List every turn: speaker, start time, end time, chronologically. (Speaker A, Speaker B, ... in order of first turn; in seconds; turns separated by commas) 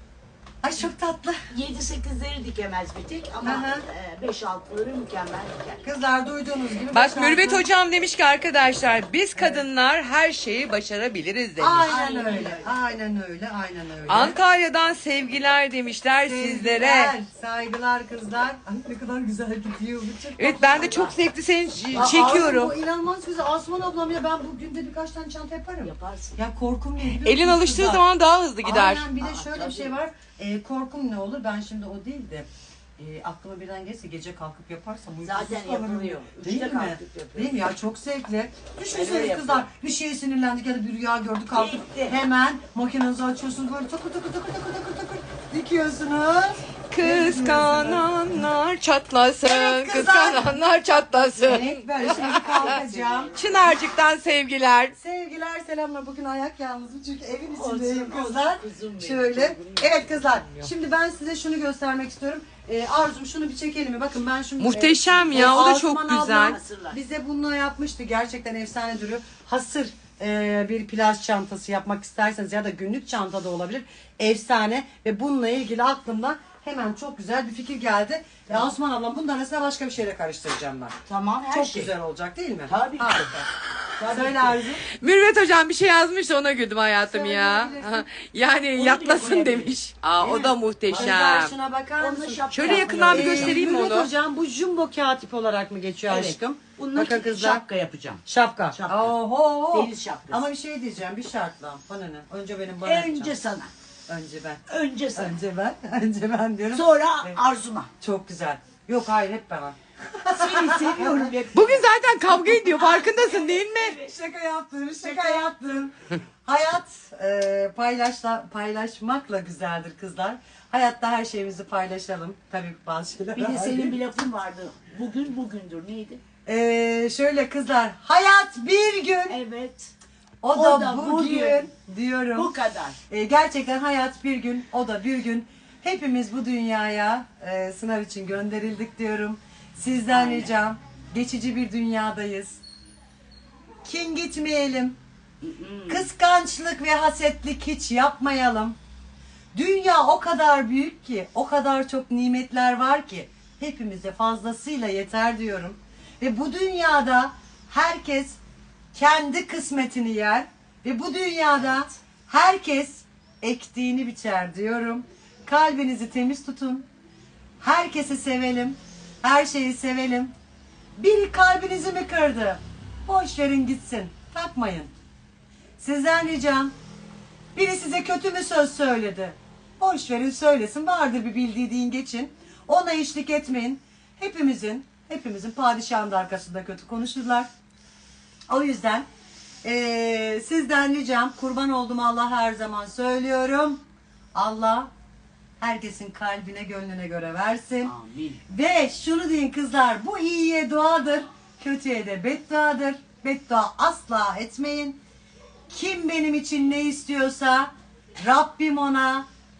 Speaker A: 0.6-1.4, Speaker B: 1.5-5.9, Speaker A: 3.4-3.8, Speaker A: 5.8-7.6, Speaker C: 6.9-11.9, Speaker A: 9.3-9.7, Speaker A: 11.6-14.4, Speaker B: 11.8-12.8, Speaker C: 14.1-17.1, Speaker A: 16.2-21.1, Speaker C: 20.4-22.7, Speaker A: 21.9-28.0, Speaker B: 25.8-26.4, Speaker C: 27.2-29.1, Speaker A: 28.6-48.5, Speaker B: 29.2-30.0, Speaker B: 35.2-37.6, Speaker B: 38.9-39.7, Speaker B: 41.5-42.2, Speaker C: 46.9-54.9, Speaker A: 49.4-50.6, Speaker A: 51.4-53.3, Speaker B: 52.0-53.8, Speaker A: 54.9-81.0, Speaker B: 57.5-60.0, Speaker C: 60.1-60.7, Speaker C: 64.6-66.6, Speaker B: 65.3-65.7, Speaker B: 66.4-67.0, Speaker B: 81.0-81.9, Speaker A: 81.5-83.5, Speaker B: 82.7-83.4, Speaker B: 84.0-84.6, Speaker A: 84.1-84.8, Speaker C: 85.0-91.5, Speaker A: 87.0-88.0, Speaker B: 88.7-91.2, Speaker A: 90.9-97.6, Speaker B: 92.0-93.6, Speaker C: 92.5-94.1, Speaker B: 96.1-99.2, Speaker A: 98.2-103.4, Speaker B: 99.7-100.4, Speaker B: 102.8-103.7, Speaker A: 104.1-107.4, Speaker B: 104.7-105.3, Speaker B: 106.7-107.9, Speaker A: 108.0-111.3, Speaker B: 110.3-111.9, Speaker C: 111.5-114.0, Speaker A: 112.5-115.9, Speaker B: 115.0-115.5, Speaker A: 116.4-124.0, Speaker B: 123.3-126.2, Speaker A: 126.5-129.4, Speaker B: 129.3-129.9, Speaker A: 130.4-132.5, Speaker B: 130.5-131.7, Speaker B: 132.3-133.0, Speaker A: 133.1-142.6, Speaker B: 140.1-140.5, Speaker A: 143.8-145.0, Speaker B: 145.4-146.1, Speaker A: 145.9-148.8, Speaker A: 149.5-158.4, Speaker A: 158.9-166.8, Speaker A: 167.6-170.3, Speaker A: 170.9-174.9, Speaker A: 175.8-176.7, Speaker A: 177.5-187.5, Speaker A: 188.5-189.1, Speaker A: 189.6-193.8, Speaker A: 194.3-194.9, Speaker A: 195.6-197.9, Speaker B: 197.8-198.4, Speaker A: 198.5-205.0, Speaker A: 205.7-209.2